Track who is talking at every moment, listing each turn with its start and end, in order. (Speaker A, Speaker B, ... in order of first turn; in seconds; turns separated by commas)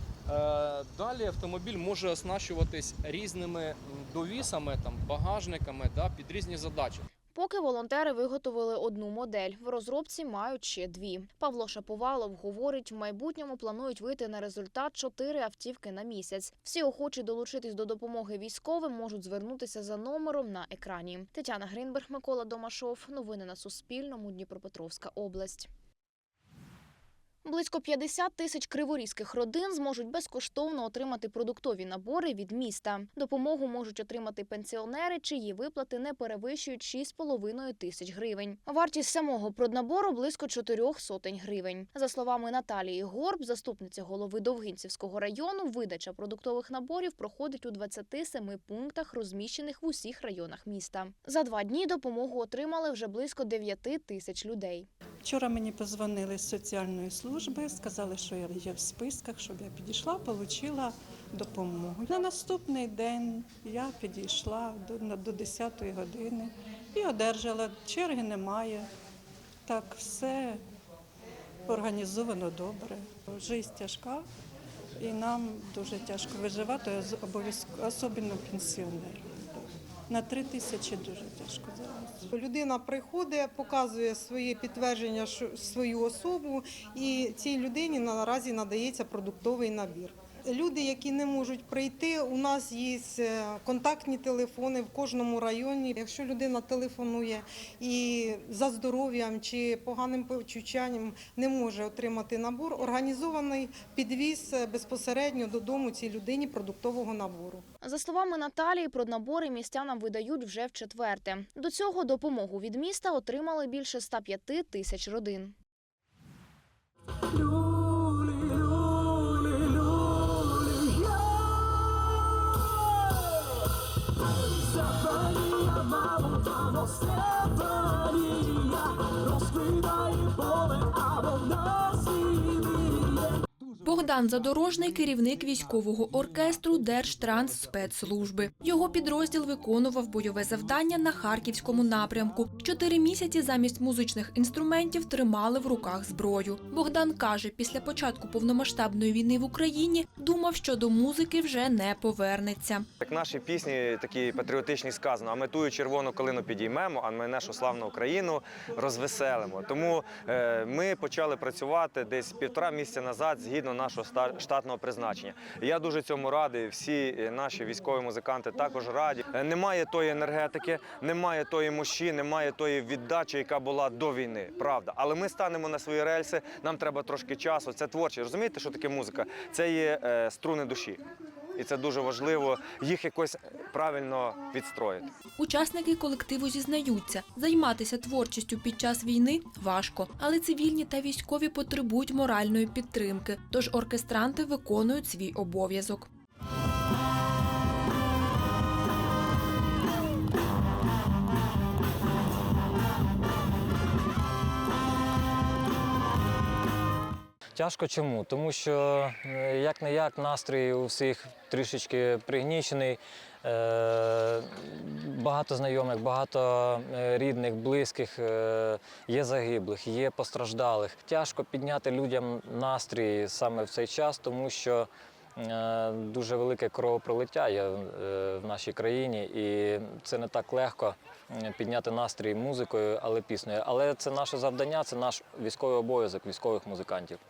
Speaker A: 0.3-7.0, Speaker B: 7.3-25.7, Speaker B: 27.4-54.9, Speaker C: 55.2-68.9, Speaker C: 69.7-70.6, Speaker C: 71.7-74.2, Speaker C: 75.0-82.3, Speaker D: 82.3-107.6, Speaker B: 107.8-115.5, Speaker E: 133.8-152.9, Speaker F: 153.0-181.0, Speaker F: 181.6-185.0, Speaker E: 185.4-196.1, Speaker G: 207.6-237.2